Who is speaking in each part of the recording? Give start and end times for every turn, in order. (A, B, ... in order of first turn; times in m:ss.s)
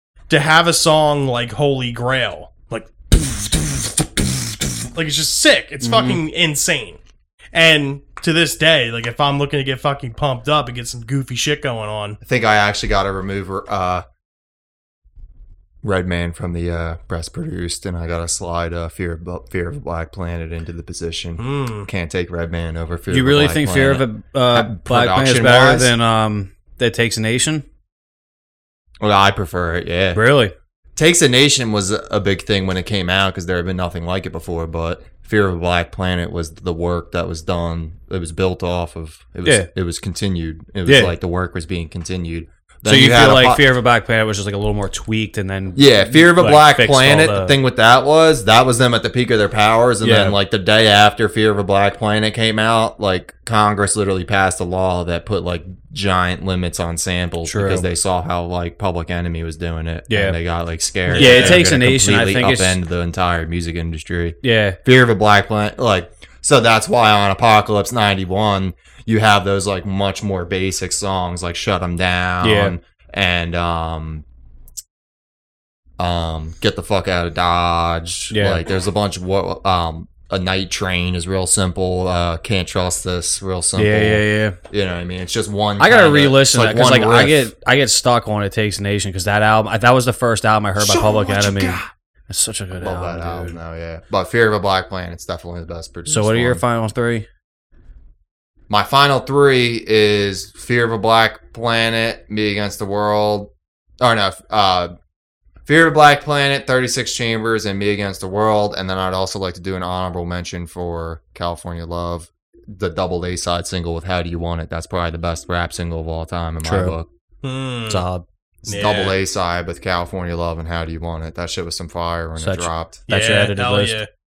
0:00.3-0:07.0 A
0:05.8-0:06.2 B
0:07.5-0:12.2 A
0:12.2-0:14.0 C
0:15.8-0:25.9 C
0:21.4-0:21.9 A
0:23.1-0:27.6 B
0:29.0-0:30.2 C
0:30.1-0:30.5 B
0:31.0-0:43.6 C
0:40.9-0:41.2 B
0:42.8-0:47.6 B
0:45.8-1:14.2 C
0:50.0-0:50.4 B
0:57.4-0:57.9 B
1:00.1-1:00.4 B
1:01.1-1:01.6 A
1:01.2-1:02.8 B
1:04.4-1:04.8 B
1:12.4-1:12.8 B
1:16.0-1:27.5 C
1:18.3-1:18.6 B
1:23.8-1:24.6 B
1:25.8-1:33.6 B
1:30.8-1:31.9 C
1:32.8-1:36.6 C
1:36.1-1:37.3 B
1:38.7-1:44.9 C
1:45.7-1:57.1 C
1:56.6-1:57.0 B
1:57.4-1:58.0 A
1:57.9-1:58.2 B
1:58.6-2:03.0 C
1:58.7-1:59.2 A
2:02.4-2:04.0 B
2:03.1-2:04.1 A